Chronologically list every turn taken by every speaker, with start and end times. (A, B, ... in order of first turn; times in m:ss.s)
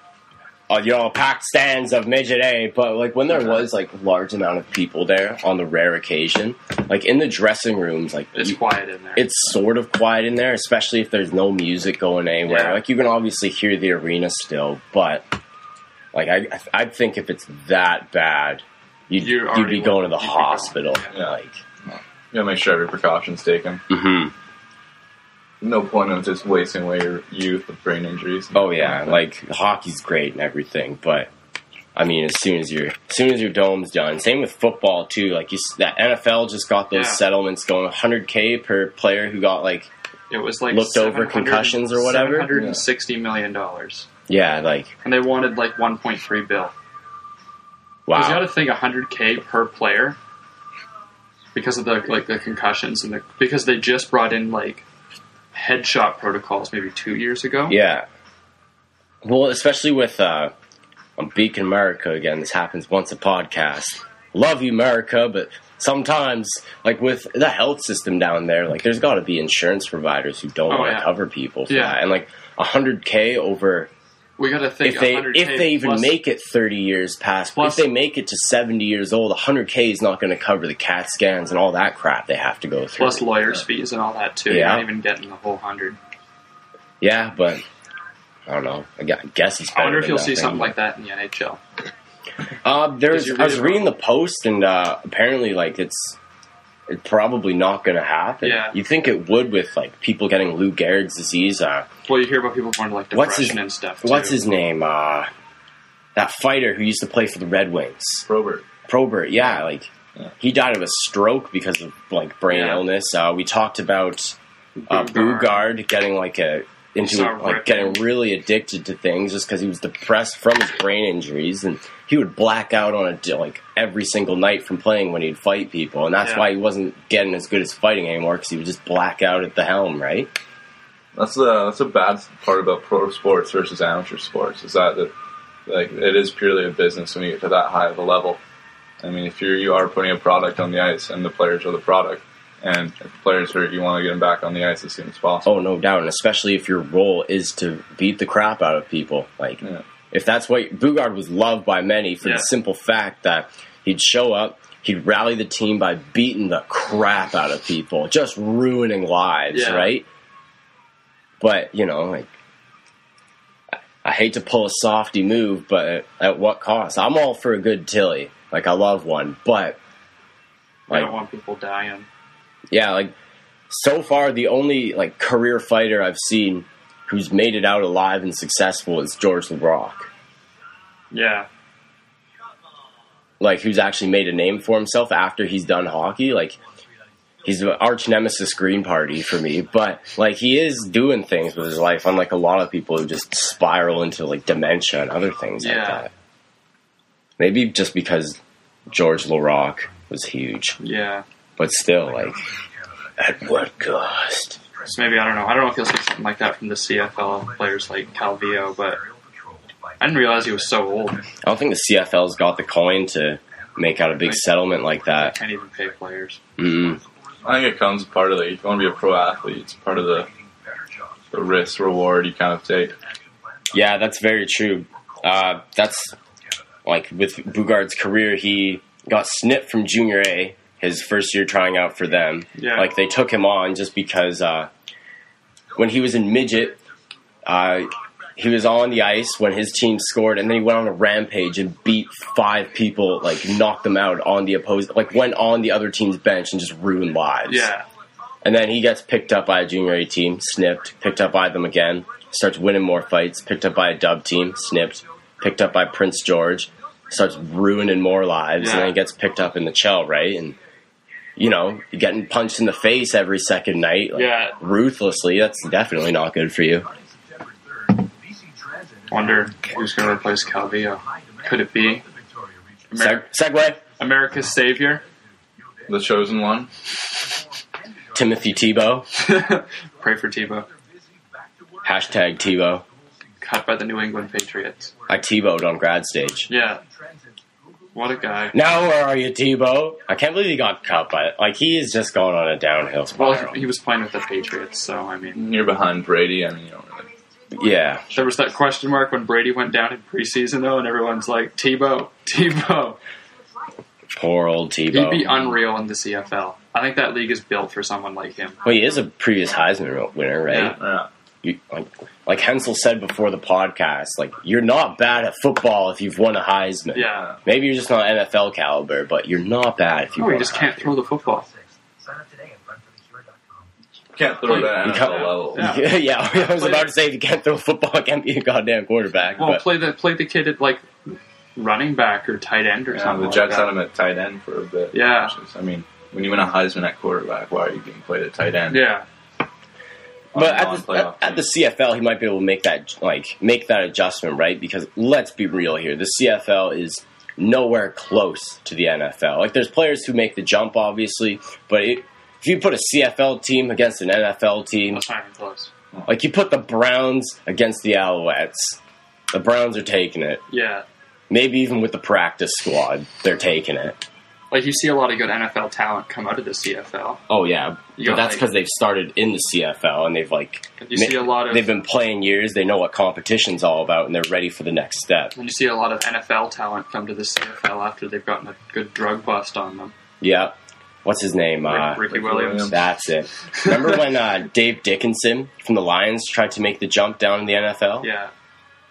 0:00.7-0:08.6 A
0:08.3-0:09.3 B
0:09.2-0:15.2 A
0:12.4-0:12.8 B
0:16.1-0:21.6 A
0:19.2-0:21.1 B
0:21.9-0:23.8 C
0:23.9-0:24.3 A
0:25.6-0:29.2 C
0:28.5-0:31.3 A
0:31.9-0:39.9 A
0:36.9-0:37.2 B
0:40.3-0:44.1 B
0:40.7-0:42.5 A
0:42.5-0:42.8 C
0:44.3-0:44.9 A
0:45.0-0:46.7 B
0:48.1-0:48.5 A
0:48.1-0:50.2 B
0:51.5-0:54.8 B
0:55.5-0:57.8 B
0:57.7-0:58.0 A
0:59.2-1:00.5 A
1:01.2-1:13.9 A
1:10.7-1:11.1 B
1:11.7-1:12.0 B
1:14.4-1:16.1 B
1:14.8-1:23.3 A
1:17.5-1:17.9 B
1:23.0-1:26.0 B
1:24.5-1:24.9 A
1:27.0-1:27.6 A
1:28.5-1:30.7 A
1:29.7-1:31.6 B
1:32.6-1:36.2 A
1:33.1-1:33.9 B
1:36.9-1:41.9 A
1:38.4-1:38.8 B
1:42.1-1:44.4 B
1:43.1-1:45.3 A
1:46.2-1:48.2 A
1:48.2-1:48.6 C
1:48.9-1:54.4 A
1:52.5-1:52.8 B
1:54.8-1:55.6 B
1:54.9-2:10.3 A
1:57.0-1:58.0 B
2:06.2-2:06.5 B
2:11.1-2:15.1 C
2:15.7-2:18.4 C
2:19.0-2:25.5 C
2:25.4-2:40.0 A
2:32.2-2:32.5 B
2:39.5-2:39.9 B
2:41.4-2:42.3 A
2:44.0-2:49.8 A
2:50.9-2:52.1 B
2:52.7-2:53.1 A
2:53.7-3:00.1 A
3:01.1-3:01.5 B
3:03.4-3:06.6 A
3:07.4-3:16.1 A
3:15.6-3:16.1 B
3:17.4-3:20.8 A
3:20.8-3:21.2 B
3:21.6-3:22.4 A
3:23.2-3:24.6 A
3:24.8-3:29.0 B
3:30.0-3:31.2 B
3:31.4-3:35.4 A
3:35.1-3:36.4 B
3:36.6-3:37.0 A
3:37.4-3:40.3 C
3:41.3-3:42.9 C
3:43.7-3:46.2 A
3:46.8-3:54.7 A
3:52.6-3:52.9 B
3:55.8-3:56.8 A
3:57.4-4:07.7 A
4:07.4-4:07.8 B
4:08.4-4:20.6 A
4:18.6-4:18.9 B
4:21.4-4:26.9 A
4:24.1-4:24.6 B
4:29.1-4:32.0 B
4:32.9-4:33.3 B
4:33.0-4:33.8 A
4:34.0-4:35.0 B
4:35.9-4:36.7 C
4:38.1-4:39.1 A
4:39.2-4:40.7 B
4:41.8-4:42.8 A
4:43.4-4:44.9 B
4:45.1-4:46.5 A
4:46.5-4:46.8 B
4:47.9-4:48.6 B
4:48.5-4:53.6 A
4:53.2-4:55.4 B
4:55.3-4:57.1 C
4:57.5-4:58.1 A
4:58.1-5:03.0 B
5:04.1-5:05.3 A
5:04.9-5:08.6 B
5:08.6-5:10.8 A
5:10.5-5:10.8 B
5:10.8-5:11.1 C
5:11.4-5:21.0 A
5:16.9-5:17.3 B
5:20.2-5:21.5 B
5:24.1-5:25.7 C
5:24.4-5:26.9 B
5:24.5-5:29.6 A
5:29.4-5:33.7 B
5:32.9-5:38.8 C
5:34.9-5:35.3 B
5:38.7-5:39.0 B
5:40.3-5:41.4 C
5:40.3-5:55.0 A
5:54.9-5:55.7 B
5:56.0-5:58.8 A
5:59.3-6:00.4 A
6:00.5-6:00.8 B
6:01.3-6:04.0 A
6:04.5-6:07.2 B
6:07.3-6:15.3 A
6:08.0-6:08.4 B
6:10.8-6:11.7 B
6:15.4-6:19.9 B
6:20.2-6:22.1 A
6:21.6-6:22.8 B
6:21.9-6:22.7 C
6:22.6-6:28.1 A
6:23.6-6:23.9 B
6:28.0-6:28.3 B